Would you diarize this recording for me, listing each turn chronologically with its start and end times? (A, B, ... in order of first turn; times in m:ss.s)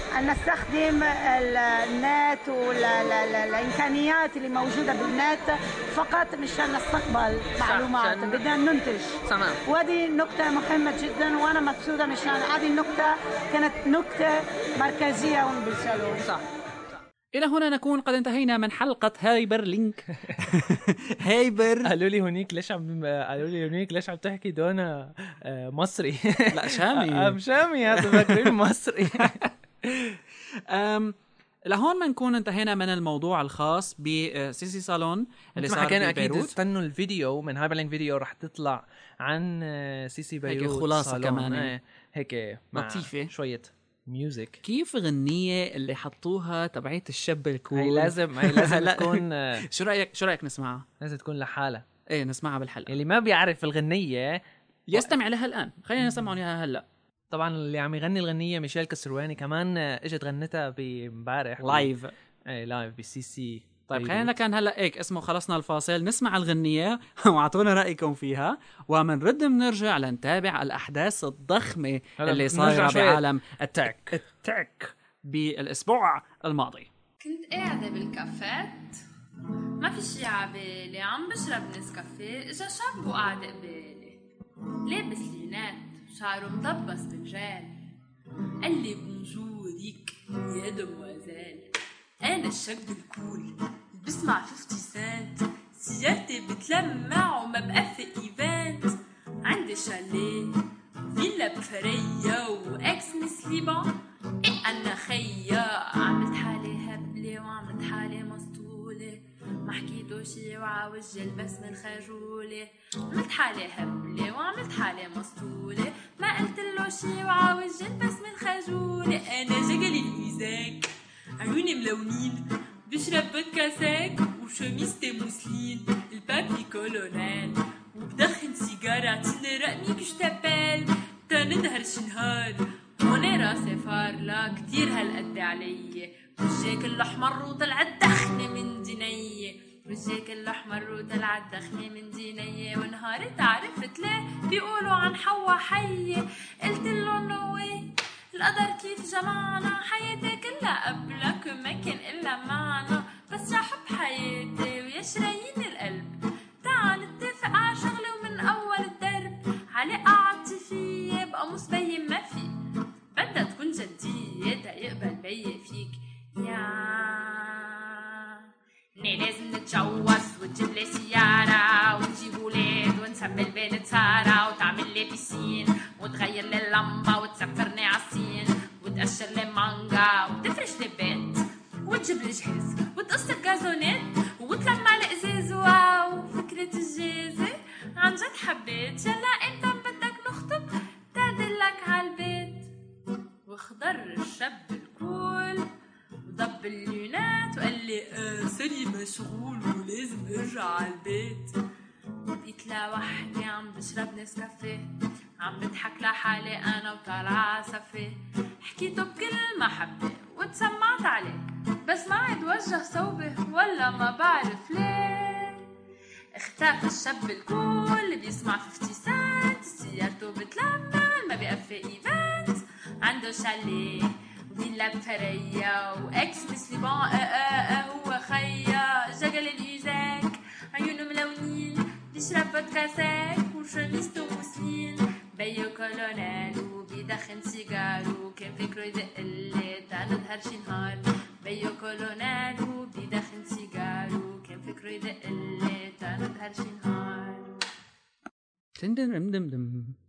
0:00.1-0:16.2 A
0:07.6-0:08.4 B
0:09.2-0:09.6 B
0:16.2-0:16.4 B
0:17.3-0:21.9 C
0:21.8-0:29.4 B
0:26.5-0:27.4 C
0:27.9-0:28.5 C
0:29.2-0:29.5 C
0:30.7-0:36.5 C
0:35.6-0:44.6 B
0:40.5-0:41.7 C
0:42.7-0:43.3 C
0:44.6-0:50.8 C
0:47.7-0:49.6 B
0:51.0-0:51.8 B
0:52.1-0:52.9 C
0:52.9-0:54.4 B
0:54.9-0:56.8 C
0:57.3-1:01.9 B
1:01.6-1:02.1 C
1:02.5-1:04.3 B
1:03.9-1:16.9 C
1:12.2-1:13.2 B
1:13.8-1:14.2 B
1:17.2-1:19.0 D
1:19.8-1:24.2 D
1:24.8-1:27.8 D
1:28.6-1:40.6 D
1:41.1-2:42.6 D
2:43.1-2:48.4 D
2:49.0-3:12.7 D
3:13.4-3:15.7 D
3:16.2-3:21.5 D
3:22.4-3:24.9 D
3:25.4-3:35.6 D
3:36.4-4:07.6 D
4:08.8-4:10.0 C